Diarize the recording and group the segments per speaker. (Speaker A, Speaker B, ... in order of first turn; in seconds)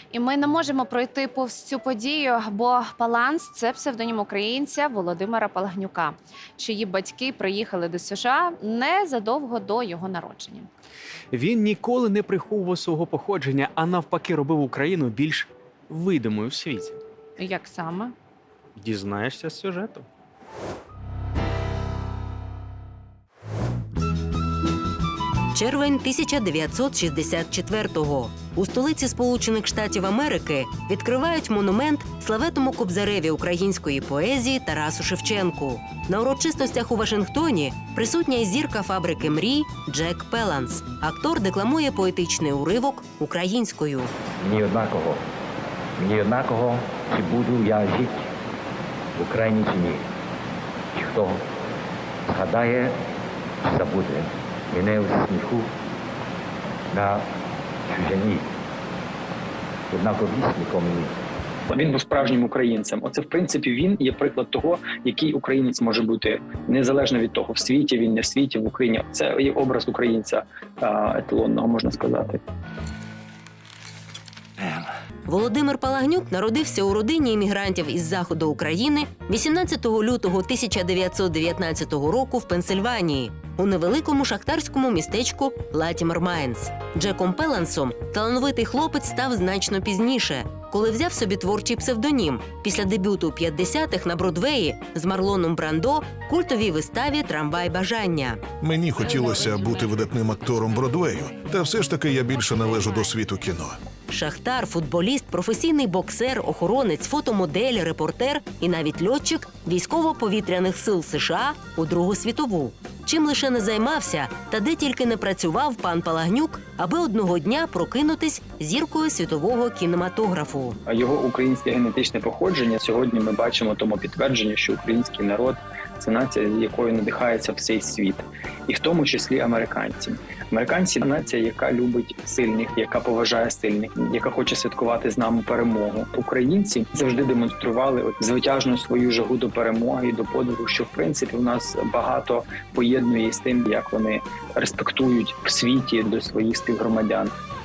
Speaker A: 0.1-10.7, 17.4-18.1, 99.0-99.7
Speaker B: 11.3-17.0, 18.8-20.1
Speaker C: 25.5-44.1, 75.3-98.4, 104.1-120.8
Speaker D: 44.4-45.2, 46.0-48.3, 49.1-50.1, 50.9-51.5, 52.3-53.0, 53.6-55.7, 56.9-57.3, 57.9-58.5, 59.9-61.2
Speaker E: 61.7-72.4, 120.9-147.3
Speaker F: 98.6-103.8